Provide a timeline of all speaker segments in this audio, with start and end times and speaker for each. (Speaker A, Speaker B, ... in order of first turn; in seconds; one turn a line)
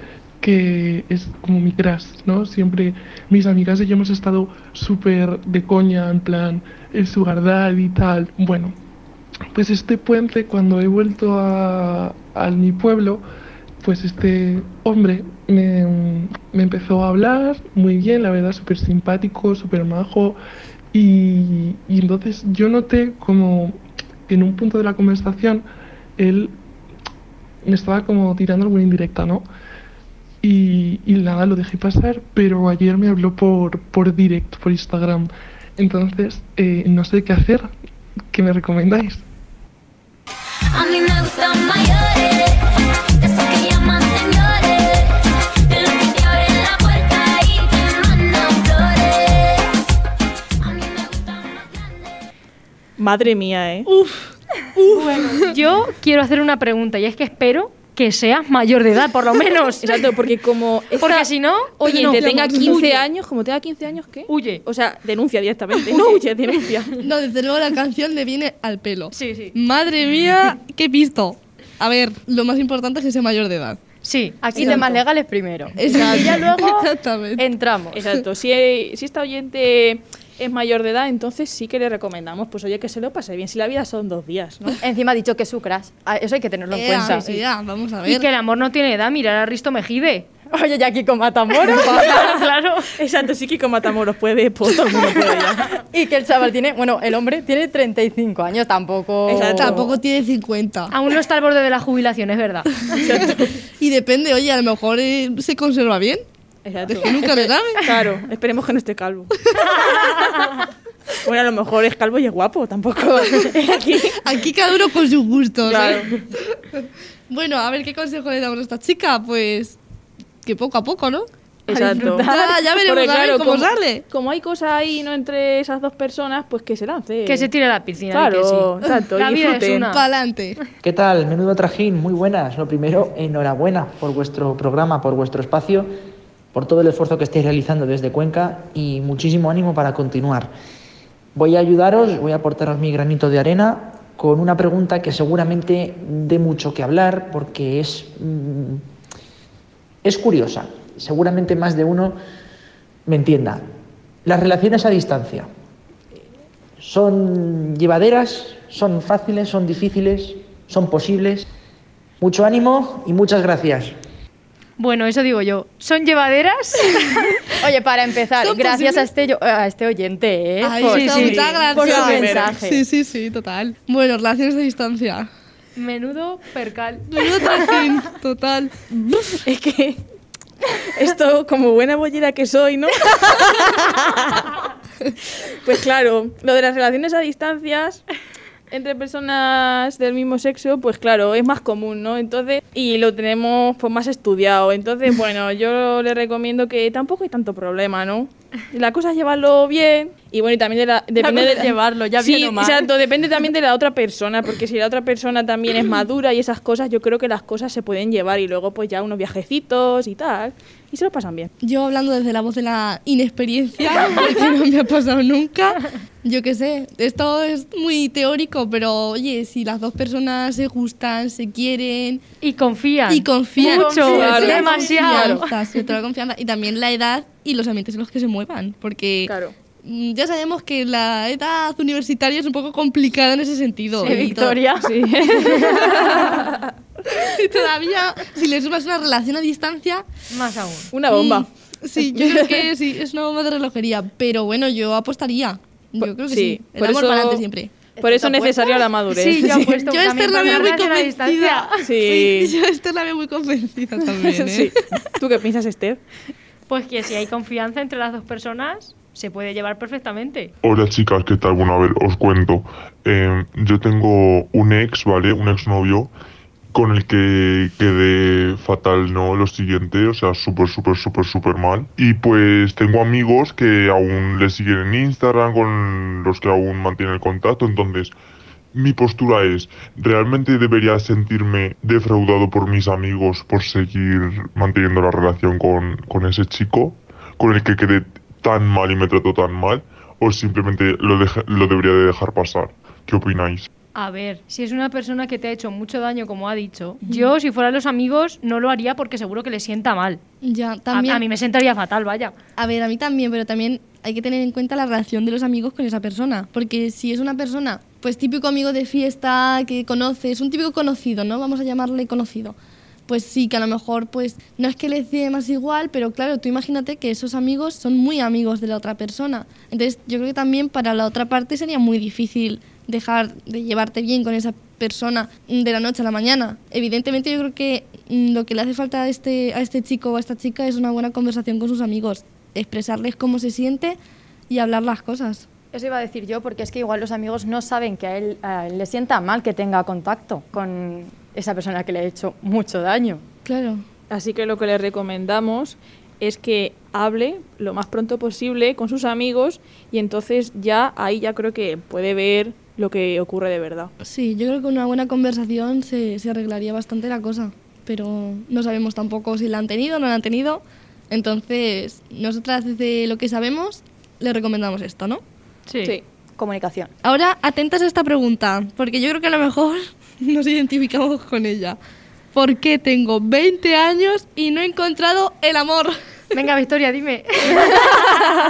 Speaker A: 0.4-8.8
Speaker A: 9.5-13.2
Speaker A: 13.8-20.4
Speaker A: 20.9-25.6
Speaker A: 26.2-26.6
Speaker A: 27.6-29.4
Speaker A: 30.4-37.7
Speaker A: 38.3-39.2
Speaker B: 40.7-49.8
Speaker B: 50.6-52.1
Speaker C: 53.0-53.9
Speaker D: 53.9-55.5
Speaker E: 54.9-60.1
Speaker C: 59.8-67.0
Speaker E: 61.0-63.0
Speaker D: 61.9-62.9
Speaker E: 64.3-64.6
Speaker D: 67.0-73.8
Speaker E: 69.1-69.5
Speaker E: 74.0-74.9
Speaker F: 74.5-78.0
Speaker D: 74.6-74.9
Speaker D: 75.8-77.4
Speaker C: 77.9-84.8
Speaker F: 84.8-87.2
Speaker D: 86.7-88.2
Speaker E: 87.1-87.4
Speaker E: 88.0-90.3
Speaker F: 90.5-92.4
Speaker E: 91.7-92.9
Speaker C: 93.0-95.7
Speaker F: 95.8-99.8
Speaker C: 99.3-99.9
Speaker D: 99.4-100.9
Speaker E: 100.9-103.0
Speaker C: 102.9-103.6
Speaker D: 103.8-106.2
Speaker C: 106.7-110.2
Speaker D: 106.9-107.9
Speaker C: 111.2-114.2
Speaker D: 114.2-119.8
Speaker C: 115.6-116.1
Speaker D: 120.4-121.3
Speaker F: 121.7-122.6
Speaker C: 121.7-127.5
Speaker D: 122.2-124.0
Speaker E: 127.2-130.0
Speaker C: 128.1-129.9
Speaker D: 129.9-130.6
Speaker G: 130.8-135.9
Speaker G: 136.5-140.5
Speaker G: 141.3-148.9
Speaker G: 150.0-152.2
Speaker G: 153.1-153.7
Speaker G: 154.2-155.5
Speaker G: 156.8-161.5
Speaker G: 162.2-164.0
Speaker E: 164.8-167.2
Speaker F: 167.6-172.8
Speaker D: 168.4-169.1
Speaker D: 170.6-175.3
Speaker E: 170.9-171.4
Speaker C: 171.2-172.5
Speaker E: 175.8-177.7
Speaker D: 177.1-179.4
Speaker C: 179.4-180.0
Speaker C: 180.9-184.4
Speaker C: 185.6-188.0
Speaker C: 188.7-211.5
Speaker F: 201.2-202.9
Speaker D: 211.6-222.2
Speaker E: 222.4-225.5
Speaker D: 223.1-234.6
Speaker C: 223.6-225.4
Speaker C: 229.3-229.6
Speaker F: 234.0-236.3
Speaker C: 234.1-236.6
Speaker D: 237.1-240.1
Speaker E: 240.3-240.9
Speaker C: 240.9-241.5
Speaker D: 241.1-247.7
Speaker C: 246.0-247.4
Speaker F: 248.0-248.9
Speaker C: 248.0-249.8
Speaker E: 249.1-251.7
Speaker D: 249.9-254.8
Speaker C: 251.8-252.5
Speaker C: 254.1-256.0
Speaker E: 256.7-260.5
Speaker H: 260.6-266.1
Speaker H: 266.7-278.1
Speaker H: 278.7-293.7
Speaker E: 293.9-300.2
Speaker D: 297.1-297.3
Speaker D: 300.4-301.2
Speaker E: 300.9-302.4
Speaker D: 302.6-312.6
Speaker D: 313.1-334.0
Speaker D: 334.5-335.4
Speaker F: 335.7-343.2
Speaker D: 343.5-343.8
Speaker C: 344.1-353.9
Speaker D: 354.0-365.2
Speaker E: 365.7-366.0
Speaker F: 366.4-366.9
Speaker D: 367.0-371.8
Speaker D: 372.3-376.0
Speaker E: 376.3-378.1